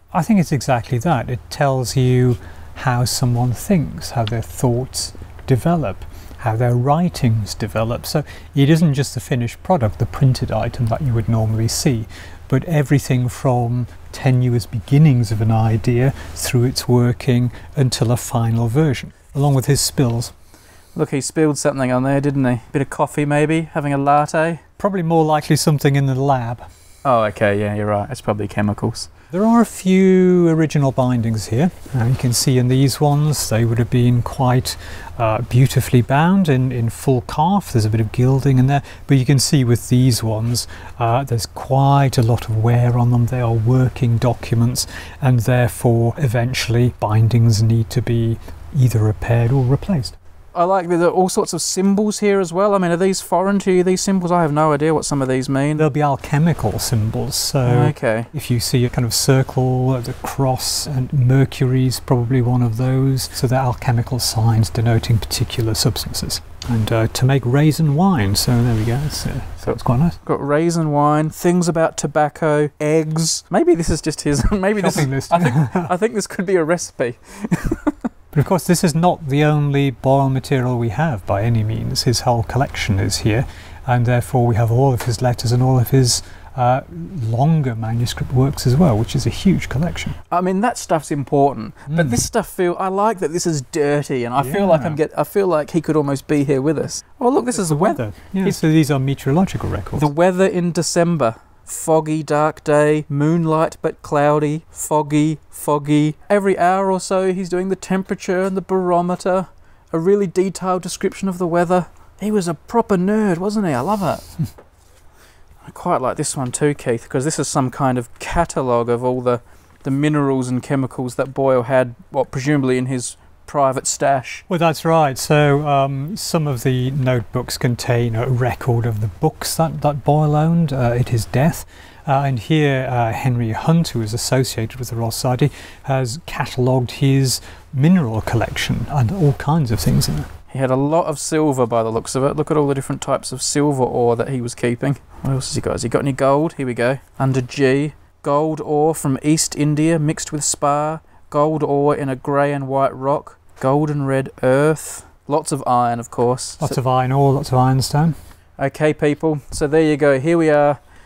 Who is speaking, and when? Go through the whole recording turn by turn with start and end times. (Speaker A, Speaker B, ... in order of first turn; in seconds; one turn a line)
Speaker A: 0.1-20.3
Speaker B: 20.9-24.6
Speaker A: 24.8-26.6
Speaker B: 27.0-29.1
Speaker A: 29.3-50.1
Speaker B: 50.5-55.8
Speaker A: 55.8-70.2
Speaker B: 57.6-58.3
Speaker B: 70.2-78.0
Speaker A: 74.8-75.9
Speaker A: 78.3-90.2
Speaker B: 90.3-98.6
Speaker A: 91.9-92.2
Speaker A: 94.4-95.0
Speaker A: 97.5-100.1
Speaker B: 100.0-114.3
Speaker B: 115.6-124.4
Speaker A: 124.5-140.3
Speaker B: 140.5-156.8
Speaker A: 156.6-158.2
Speaker B: 158.6-160.8